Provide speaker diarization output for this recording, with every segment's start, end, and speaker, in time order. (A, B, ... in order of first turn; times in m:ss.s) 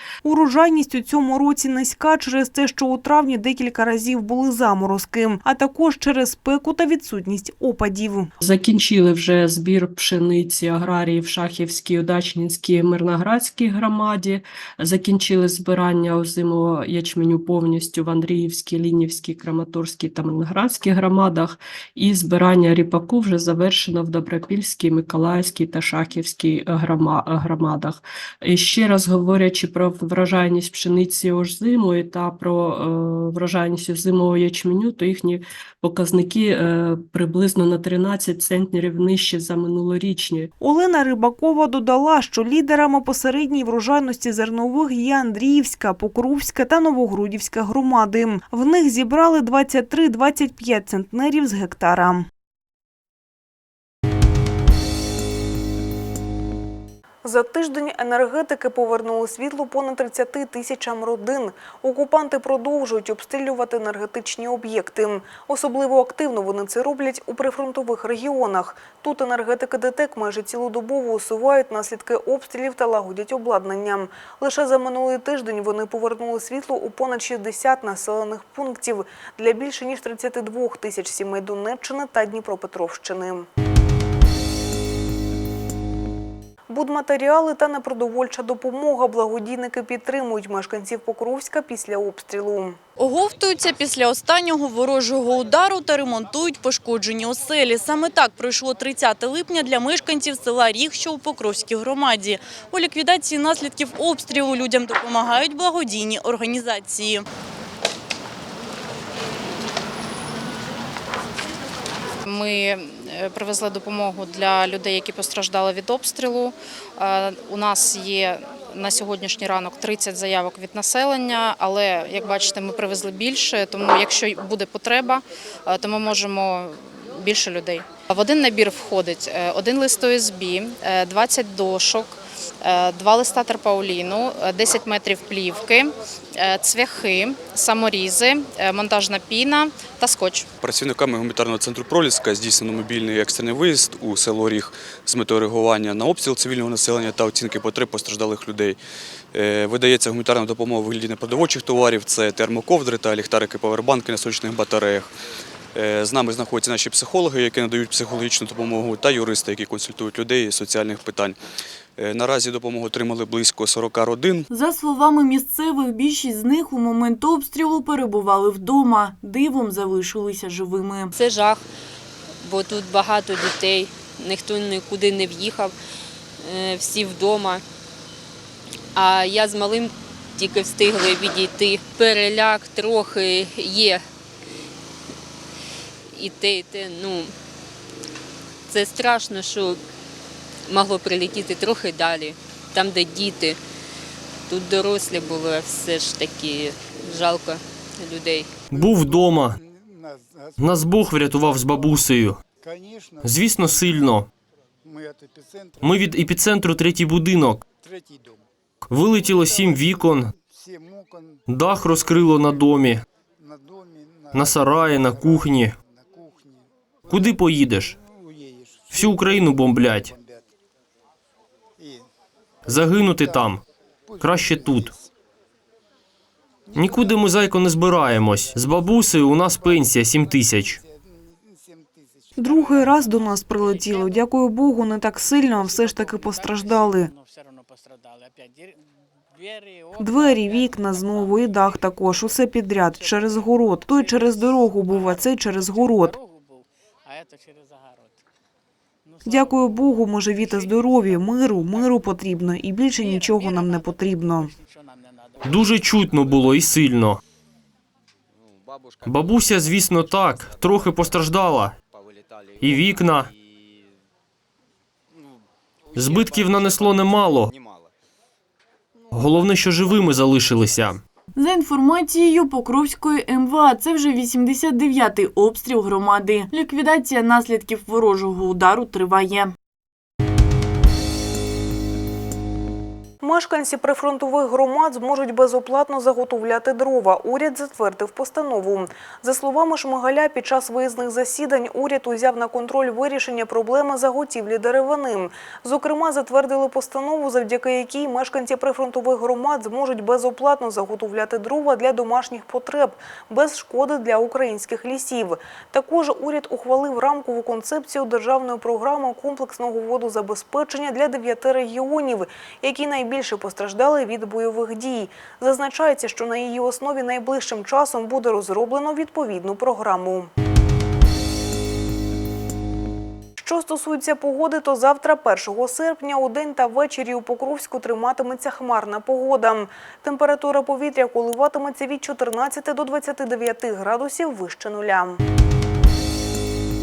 0:00.2-0:08.3 A
0:08.4-0:40.5 B
0:40.6-0:52.3 A
0:57.2-1:23.5 A
1:26.7-1:32.8 A
1:33.0-1:47.3 C
1:52.3-2:20.5 D
2:20.6-2:28.8 E
2:29.3-2:35.1 E
2:35.7-2:41.4 E
2:42.0-2:44.5 E
2:44.5-2:51.1 F
2:51.2-2:51.6 G
2:52.4-2:55.7 G
2:56.4-2:57.6 G
2:59.0-3:04.0 G
3:06.1-3:07.3 G
3:08.7-3:09.8 G
3:10.7-3:13.6 G
3:14.5-3:18.5 G
3:18.7-3:19.6 H
3:20.6-3:22.4 H
3:23.2-3:24.3 H
3:25.8-3:27.6 H
3:28.9-3:30.3 H
3:31.5-3:33.0 H
3:34.3-3:35.7 H
3:37.1-3:38.0 H
3:38.9-3:40.1 H
3:42.7-3:43.6 H
3:44.2-3:44.9 H
3:46.8-3:50.8 H
3:52.4-3:57.1 A
4:00.0-4:06.2 A
4:09.2-4:14.5 A
4:15.5-4:17.2 H
4:19.0-4:21.8 H
4:22.6-4:23.3 H
4:26.0-4:27.5 H
4:29.1-4:31.0 H
4:31.4-4:39.5 F
4:43.2-5:20.3 A
5:23.4-5:35.2 A